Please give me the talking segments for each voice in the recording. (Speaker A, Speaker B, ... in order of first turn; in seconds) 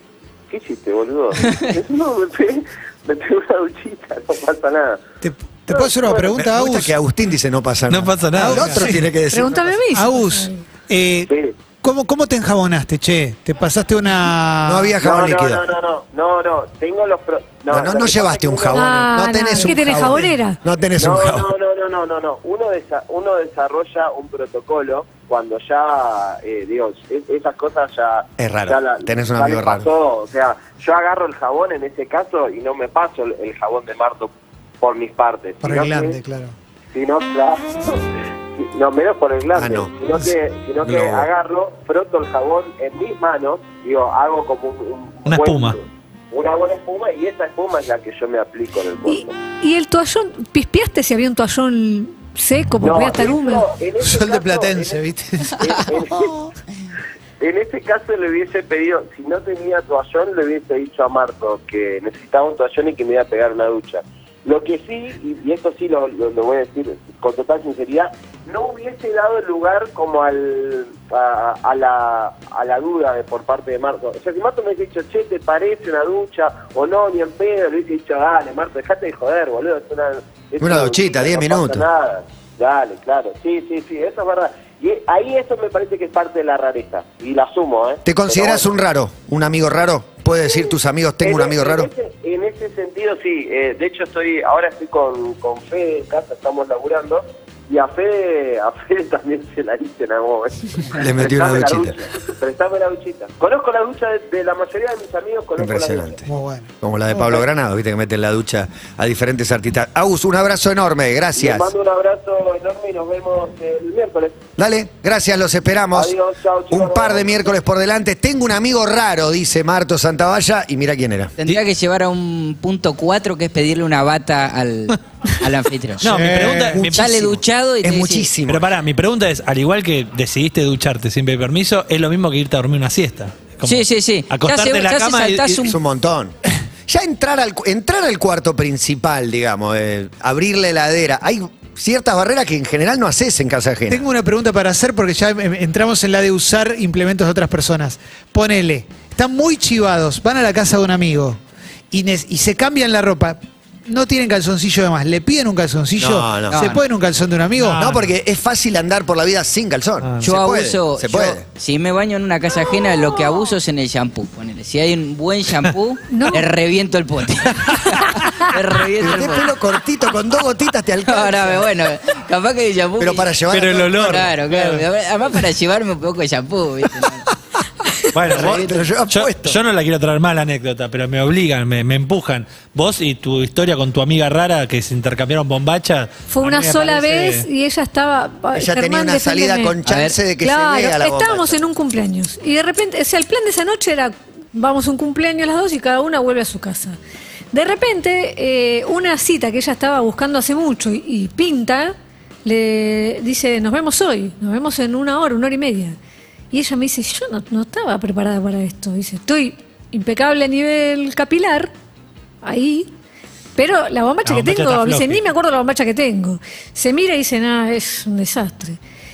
Speaker A: 0.5-5.1, 5.7-6.3, 11.2-11.5, 15.0-18.9, 21.0-36.2, 36.9-49.3, 52.8-56.4, 57.4-88.7, 90.4-90.7, 91.2-106.2, 111.3-114.4, 115.9-117.4
Speaker B: 5.2-6.9, 8.3-9.1, 9.9-11.3, 11.8-14.9, 35.6-36.5, 54.0-56.0, 106.2-107.4, 126.0-126.8, 143.9-151.4, 151.9-157.8
Speaker C: 6.3-9.8, 14.6-15.6, 17.7-21.5, 28.4-29.9, 39.5-39.9, 40.8-41.3, 80.6-81.8, 88.0-91.9, 100.9-102.0, 105.6-106.2, 106.8-111.7, 114.6-116.1, 116.7-121.3, 126.7-128.7, 135.6-136.3, 136.9-144.1, 156.0-156.6, 157.8-161.4, 169.0-171.8, 173.0-174.3, 178.2-179.6, 188.5-191.6
Speaker D: 7.9-8.9, 45.2-45.8, 126.0-127.3, 128.5-135.6, 157.6-158.1, 173.5-174.8, 178.1-187.4, 214.2-215.2
Speaker E: 9.3-10.6, 18.7-20.6, 49.1-53.6, 166.1-166.4, 186.3-189.8, 190.4-197.0, 197.5-201.9, 202.4-205.9, 206.5-211.7, 212.4-212.9, 213.6-218.8
Speaker F: 121.4-126.0, 126.9-128.3, 133.6-135.8, 156.5-156.8, 160.2-169.5, 171.1-173.3, 173.9-177.2, 189.8-190.2